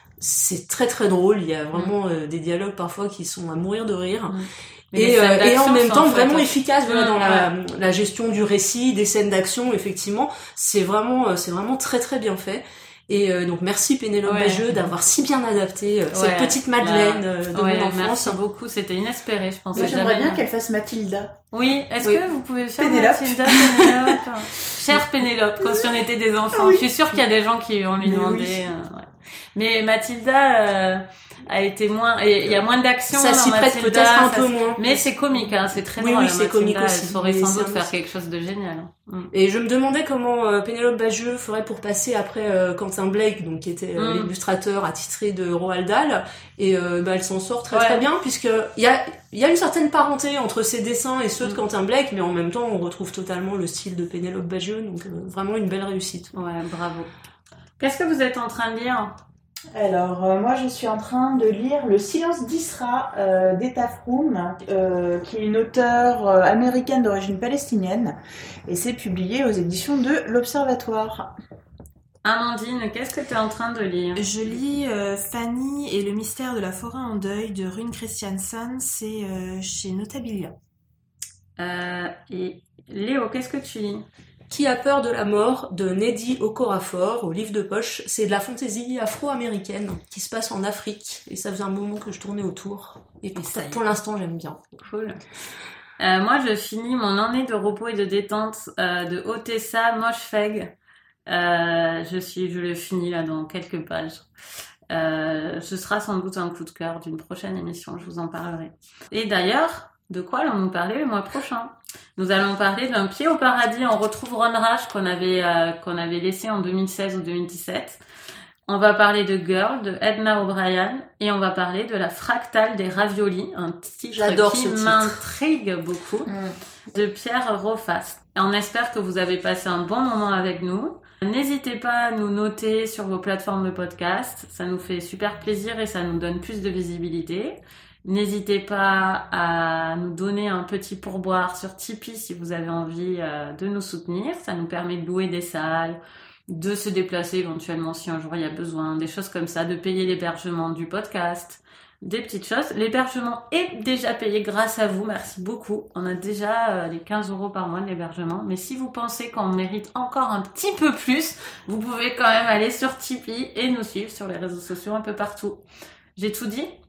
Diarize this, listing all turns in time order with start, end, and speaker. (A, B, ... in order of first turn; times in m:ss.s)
0:00.2-0:04.3 A
0:04.3-0:07.5 B
0:04.9-0:18.4 A
0:14.2-0:14.6 B
0:16.1-0:20.4 B
0:19.7-0:21.3 C
0:21.5-0:39.3 B
0:22.8-0:24.2 C
0:25.6-0:25.9 C
0:26.5-0:26.9 C
0:28.0-0:28.7 C
0:33.1-0:37.9 A
0:39.3-0:56.3 A
0:44.0-0:44.3 B
0:47.7-0:48.0 B
0:56.3-0:57.1 B
0:57.8-0:59.1 B
0:59.7-1:08.1 C
1:08.7-1:11.3 C
1:12.2-1:14.2 B
1:14.2-1:20.5 D
1:21.6-1:24.0 B
1:24.5-1:34.8 A
1:33.4-1:33.8 B
1:34.8-1:35.2 B
1:36.0-1:40.7 B
1:41.3-1:44.3 B
1:44.9-1:58.0 B
1:58.7-2:06.3 B
2:04.1-2:05.2 A
2:06.9-2:45.6 B
2:46.2-2:46.7 B